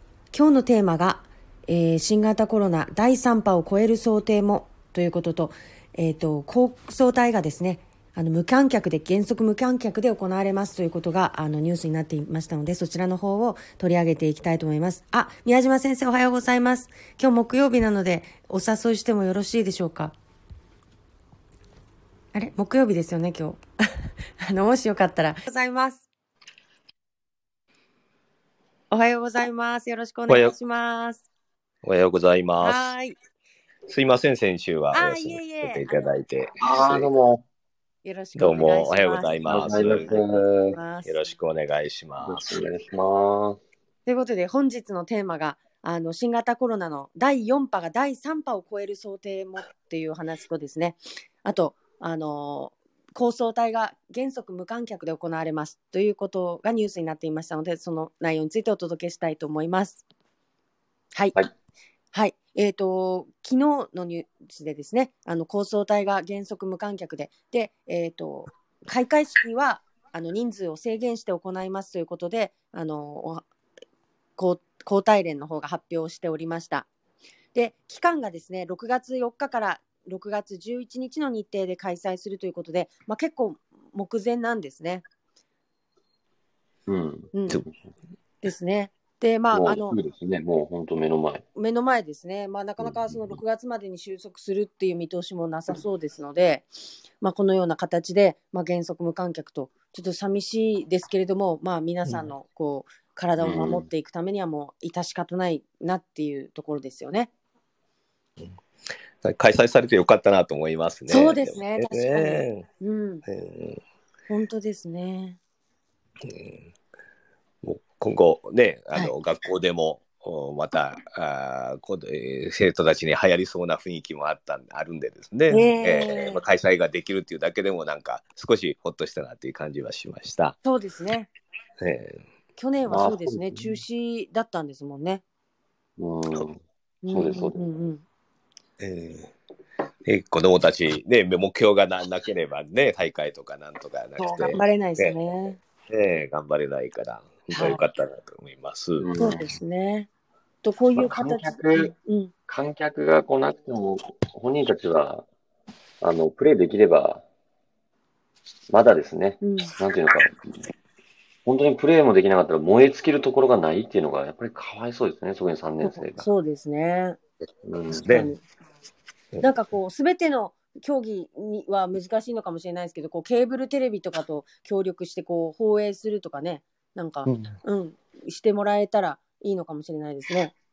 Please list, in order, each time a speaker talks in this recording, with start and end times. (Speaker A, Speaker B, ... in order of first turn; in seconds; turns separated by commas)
Speaker A: 0.3-20.1, Speaker A: 22.3-23.6, Speaker A: 24.4-26.1, Speaker A: 28.9-31.2, Speaker B: 30.3-30.6, Speaker B: 31.8-32.9, Speaker A: 32.6-33.1, Speaker B: 33.9-37.1, Speaker A: 34.9-36.1, Speaker C: 36.6-37.4, Speaker A: 38.0-40.2, Speaker B: 38.4-40.2, Speaker C: 39.4-40.8, Speaker A: 40.7-41.2, Speaker B: 41.0-42.5, Speaker C: 42.2-43.6, Speaker A: 44.0-60.0, Speaker A: 62.1-73.4, Speaker A: 74.4-76.9, Speaker A: 77.5-85.0, Speaker C: 86.9-87.9, Speaker A: 87.3-87.6, Speaker A: 88.4-90.0, Speaker C: 89.5-91.4, Speaker A: 91.5-107.3, Speaker C: 92.8-93.4, Speaker C: 103.4-103.9, Speaker B: 109.2-112.7, Speaker A: 111.1-113.2, Speaker B: 113.3-113.8, Speaker A: 114.3-115.4, Speaker B: 116.2-116.7, Speaker B: 117.6-130.6, Speaker A: 125.5-126.4, Speaker A: 130.6-131.3, Speaker B: 131.8-132.2, Speaker A: 132.6-135.2, Speaker C: 132.9-133.8, Speaker C: 136.0-137.6, Speaker A: 137.0-138.0, Speaker B: 138.8-139.3, Speaker B: 140.0-145.1, Speaker A: 144.2-145.6, Speaker B: 145.9-149.1, Speaker A: 147.5-147.8, Speaker C: 149.0-149.6, Speaker A: 149.2-150.1, Speaker A: 150.6-152.3, Speaker C: 150.9-151.9, Speaker C: 152.5-155.2, Speaker C: 156.0-157.2, Speaker C: 158.7-160.7, Speaker A: 159.4-159.7, Speaker C: 161.4-166.3, Speaker A: 165.8-167.2, Speaker C: 167.6-168.3, Speaker B: 168.0-168.3, Speaker A: 168.1-168.4, Speaker A: 169.4-180.5, Speaker B: 177.2-177.5